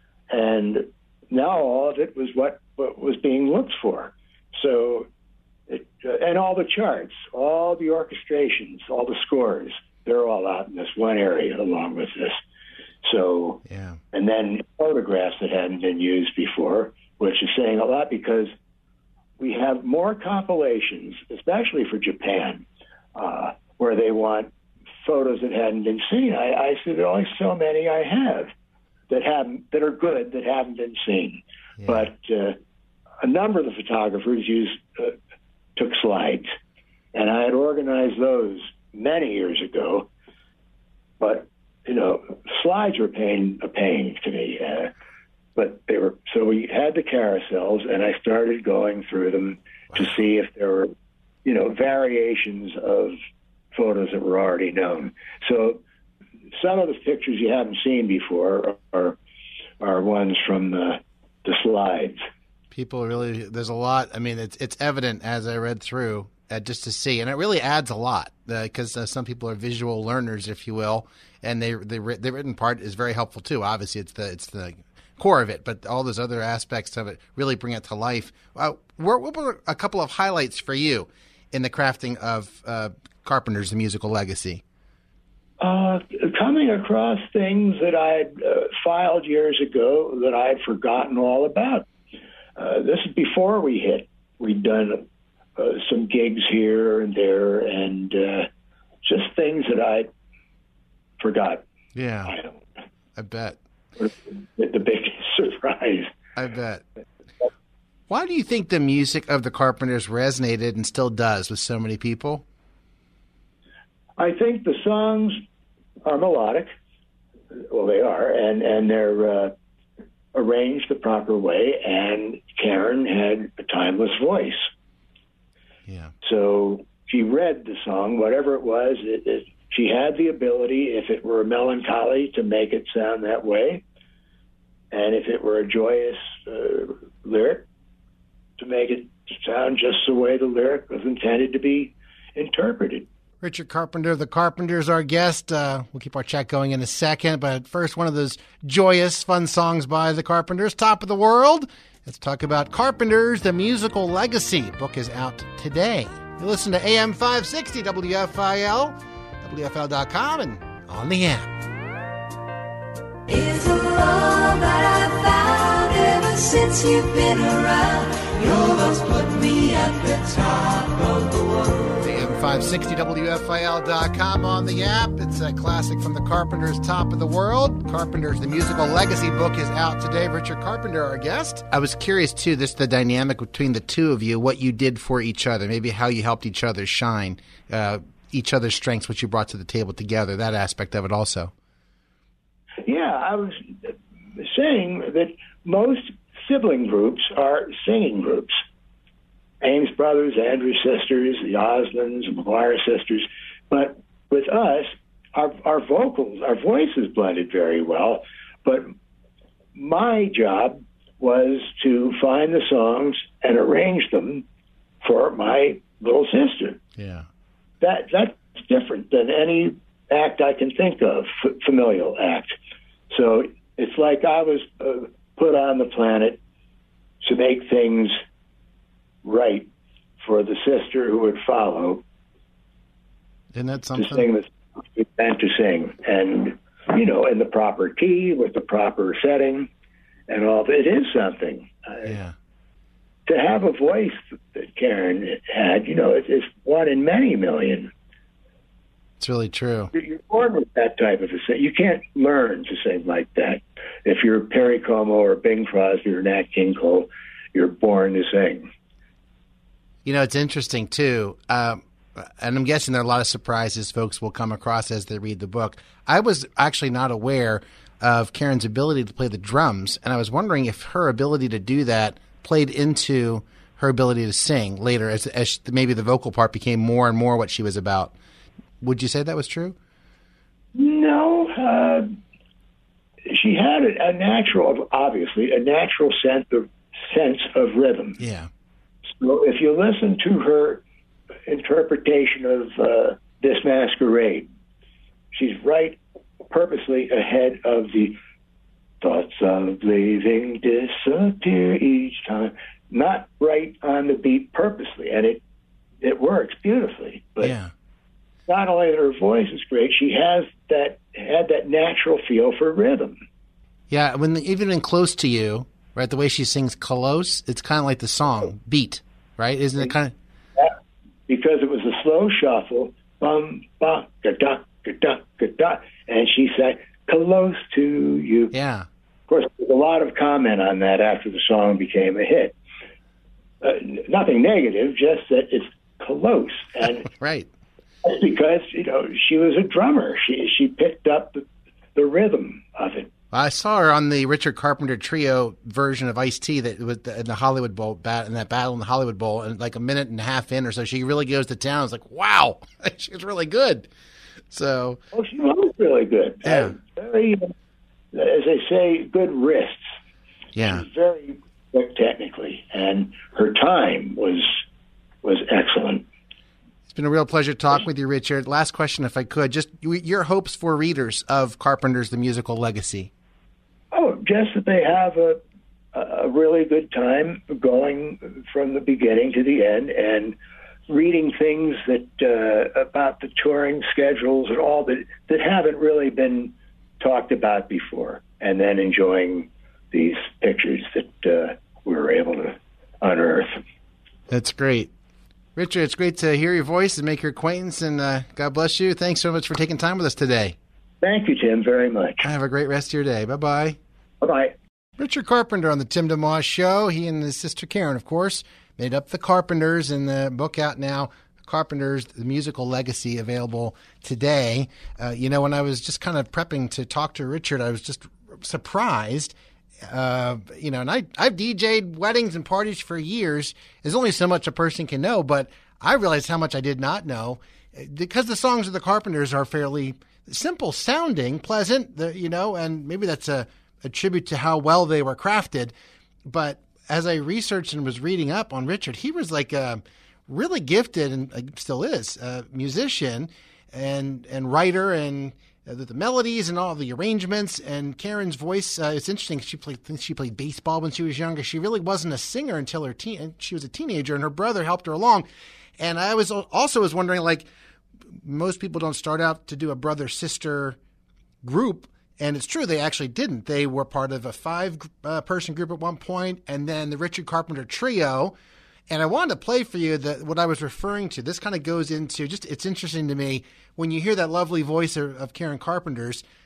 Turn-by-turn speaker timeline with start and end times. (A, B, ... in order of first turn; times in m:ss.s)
0:00.3-0:05.1 A
0:05.7-0:12.4 A
0:13.0-0:13.6 A
0:13.6-0:14.0 B
0:14.1-0:18.5 A
0:19.4-0:28.5 A
0:29.1-0:32.6 A
0:31.8-0:32.1 B
0:33.2-0:35.1 A
0:35.8-0:36.5 A
0:37.1-0:40.1 A
0:41.2-0:44.9 A
0:45.6-0:50.9 A
0:51.4-0:53.2 A
0:53.7-0:55.8 A
0:56.6-0:59.2 A
0:59.8-1:02.2 A
1:02.7-1:24.6 B
1:25.6-1:31.9 A
1:32.6-1:35.0 A
1:35.6-1:38.5 A
1:39.0-1:40.1 A
1:41.2-1:41.6 A
1:41.9-1:42.4 B
1:42.2-1:42.6 A
1:43.2-1:43.6 B
1:44.0-1:46.1 A
1:46.4-1:46.8 B
1:48.1-1:52.4 B
1:54.2-1:55.4 A
1:56.0-1:56.7 A
1:57.5-1:59.5 A
2:00.3-2:04.7 A
2:05.9-2:06.1 B
2:06.2-2:13.8 A
2:14.9-2:17.6 A
2:18.6-2:23.1 A
2:23.4-2:41.5 B
2:43.3-2:51.9 C
2:52.0-3:11.5 B
3:12.8-3:18.6 A
3:19.6-3:28.9 A
3:29.7-3:34.4 A
3:35.0-3:36.8 A
3:37.0-3:37.2 B
3:37.8-3:42.5 A
3:43.1-3:46.4 A
3:47.2-3:48.2 A
3:49.2-3:49.7 A
3:50.2-3:52.0 A
3:53.5-3:54.3 B
3:53.9-3:59.7 A
4:00.3-4:02.2 A
4:02.0-4:02.3 B
4:03.3-4:07.9 A
4:09.2-4:09.9 B
4:09.9-4:18.7 A
4:20.0-4:38.1 B
4:38.8-4:39.8 B
4:40.7-4:42.2 A
4:43.3-4:48.2 A
4:48.2-4:48.5 B
4:49.1-4:50.8 A
4:51.5-4:54.5 A
4:55.3-4:56.0 A
4:56.5-4:58.2 A
4:59.0-5:05.4 A
5:06.0-5:07.6 A
5:07.4-5:07.7 B
5:08.5-5:13.2 A
5:13.9-5:20.1 B
5:21.3-5:28.5 A
5:28.5-5:28.8 B
5:29.3-5:32.5 A
5:33.6-5:37.1 A
5:37.1-5:37.5 B
5:38.0-5:41.4 A
5:42.0-5:43.1 A
5:43.3-5:53.9 B
5:54.5-5:55.0 B
5:55.1-5:57.5 A
5:56.4-5:56.8 B
5:58.1-5:59.8 A
6:00.6-6:00.8 B
6:00.6-6:04.6 A
6:05.2-6:06.0 A
6:06.9-6:13.1 B
6:13.9-6:15.4 A
6:15.9-6:20.4 A
6:20.9-6:33.6 A
6:34.3-6:34.9 B
6:35.6-6:40.6 B
6:41.0-6:42.2 A
6:42.2-6:43.8 B
6:44.2-6:44.6 A
6:45.0-6:59.3 B
6:59.8-7:15.7 B
7:16.3-7:35.3 B
7:35.8-7:37.5 B
7:38.2-7:40.8 B
7:41.4-7:48.4 B
7:48.9-7:56.2 B